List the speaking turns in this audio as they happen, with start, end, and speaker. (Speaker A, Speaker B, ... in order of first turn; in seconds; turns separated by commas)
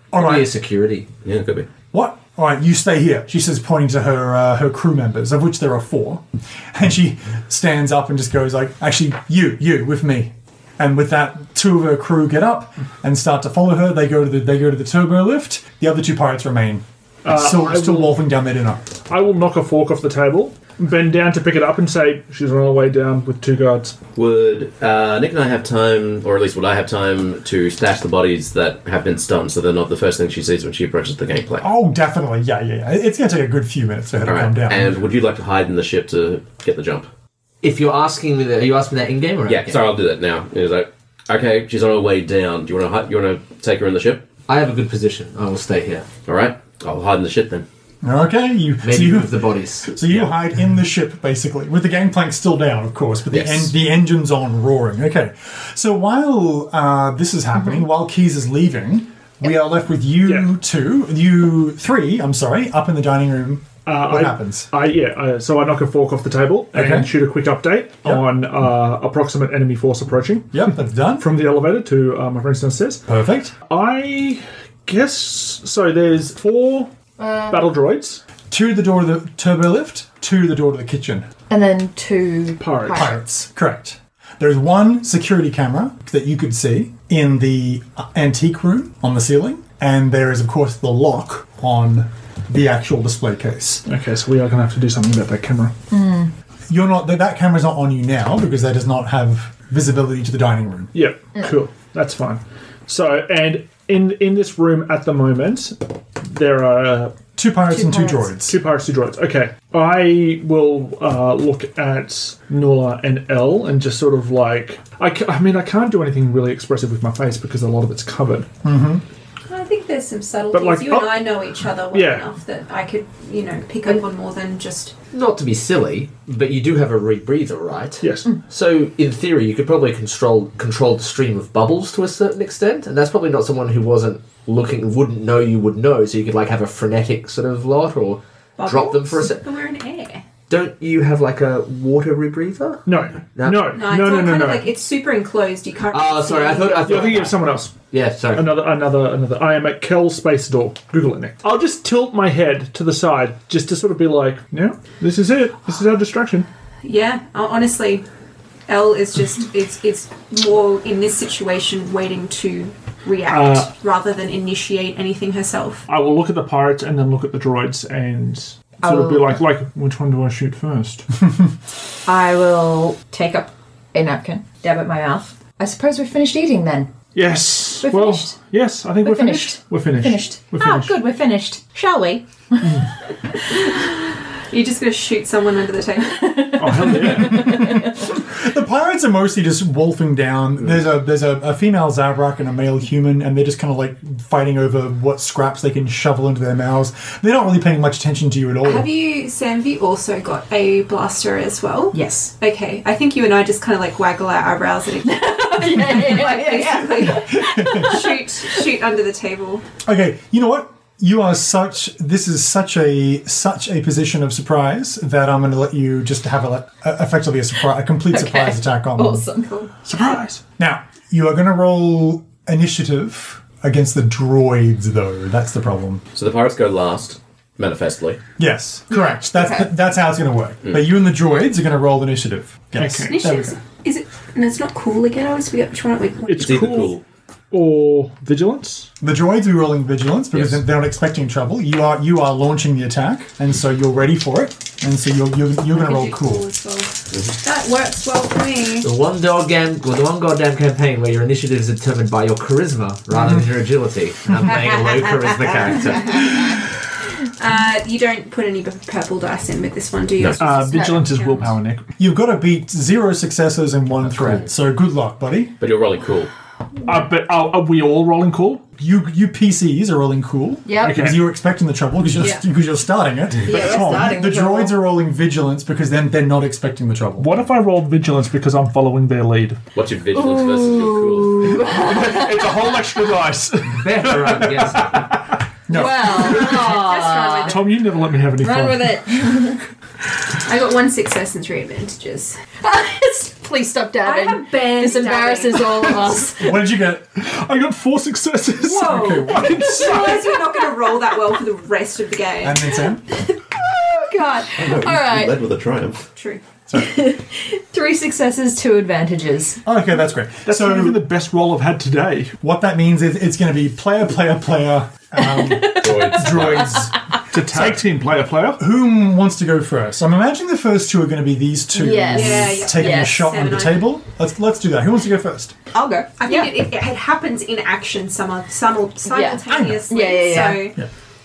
Speaker A: 0.1-0.5, Speaker B: 0.1-1.1, Speaker C: 1.2-1.7, Speaker A: 1.9-18.9, Speaker D: 17.2-18.2, Speaker D: 19.1-24.0, Speaker C: 24.2-31.7, Speaker A: 31.6-35.0, Speaker C: 34.2-37.1, Speaker B: 37.6-39.9, Speaker C: 39.5-44.3, Speaker B: 44.5-46.1, Speaker C: 46.2-47.6, Speaker A: 48.0-64.7, Speaker B: 48.8-50.0, Speaker C: 53.3-53.7, Speaker D: 60.2-60.5, Speaker D: 63.9-70.7, Speaker A: 66.7-67.1, Speaker A: 70.5-71.3, Speaker D: 71.2-73.0, Speaker A: 73.1-73.5, Speaker D: 73.7-76.9, Speaker E: 77.2-77.7, Speaker D: 77.5-78.2, Speaker A: 78.5-81.3, Speaker E: 81.5-83.2, Speaker D: 82.6-83.1, Speaker A: 82.9-93.8, Speaker D: 93.9-95.8, Speaker E: 95.9-96.3, Speaker A: 96.7-100.9, Speaker D: 100.9-107.2, Speaker A: 107.4-108.6, Speaker E: 107.7-108.3, Speaker D: 108.4-118.5, Speaker A: 118.6-119.0, Speaker F: 119.5-125.0, Speaker D: 120.5-121.4, Speaker D: 121.9-122.3, Speaker B: 125.1-139.4, Speaker D: 128.0-128.4, Speaker F: 138.6-140.2, Speaker B: 140.5-143.7, Speaker D: 142.8-144.7, Speaker F: 143.7-147.2, Speaker B: 145.9-147.4, Speaker D: 146.9-147.8, Speaker B: 147.9-148.5, Speaker D: 148.3-156.5, Speaker F: 156.8-158.1, Speaker F: 158.7-165.9, Speaker D: 163.3-163.7, Speaker D: 165.9-171.1, Speaker E: 168.8-169.4, Speaker E: 172.1-176.9, Speaker D: 177.2-181.0, Speaker E: 177.8-178.3, Speaker E: 179.0-182.7, Speaker F: 184.5-186.9, Speaker E: 186.2-188.0, Speaker D: 186.6-187.7, Speaker A: 187.2-198.9, Speaker F: 198.6-209.7, Speaker E: 201.9-202.3, Speaker E: 205.1-208.2, Speaker A: 206.9-208.2, Speaker A: 209.8-219.3, Speaker E: 218.1-219.7, Speaker D: 219.8-220.4, Speaker A: 220.6-226.0, Speaker C: 226.2-228.2, Speaker A: 228.4-233.6, Speaker F: 228.9-229.6, Speaker D: 232.8-233.2, Speaker F: 233.0-236.5, Speaker D: 236.3-238.9, Speaker C: 236.3-237.0, Speaker A: 239.0-246.4, Speaker C: 240.3-240.6, Speaker F: 245.7-246.9, Speaker F: 247.4-248.9, Speaker B: 248.8-256.4, Speaker A: 253.2-253.4, Speaker F: 256.1-256.4, Speaker F: 257.4-261.6, Speaker D: 260.4-261.9, Speaker E: 260.7-261.1, Speaker A: 262.0-265.5, Speaker C: 265.6-266.3, Speaker D: 266.9-268.7, Speaker A: 268.8-277.3, Speaker E: 270.7-271.0, Speaker D: 270.8-271.3, Speaker E: 273.4-274.8, Speaker F: 273.5-273.9, Speaker D: 277.2-279.6, Speaker C: 279.7-281.6, Speaker E: 280.1-282.7, Speaker D: 281.6-285.4, Speaker B: 283.8-285.2, Speaker A: 285.7-286.4, Speaker E: 285.7-287.6, Speaker F: 286.1-287.8, Speaker D: 287.4-289.0, Speaker E: 288.4-289.6, Speaker F: 290.4-292.4, Speaker E: 292.6-296.6, Speaker F: 294.0-296.1, Speaker A: 296.3-297.1, Speaker D: 297.2-300.3, Speaker F: 298.6-302.8, Speaker A: 298.7-299.7, Speaker E: 299.9-300.3, Speaker A: 302.4-303.0, Speaker E: 304.0-305.4, Speaker C: 304.6-306.0, Speaker F: 306.1-306.4, Speaker A: 306.7-307.0, Speaker E: 306.8-309.6, Speaker A: 309.6-311.0, Speaker D: 310.4-312.4, Speaker A: 312.4-317.9, Speaker E: 315.2-316.9, Speaker C: 315.6-316.9, Speaker D: 317.3-318.6, Speaker A: 318.6-325.5, Speaker E: 321.7-323.4, Speaker F: 322.1-323.9, Speaker E: 325.7-326.5, Speaker F: 326.2-330.8, Speaker E: 329.1-330.7, Speaker A: 329.5-330.0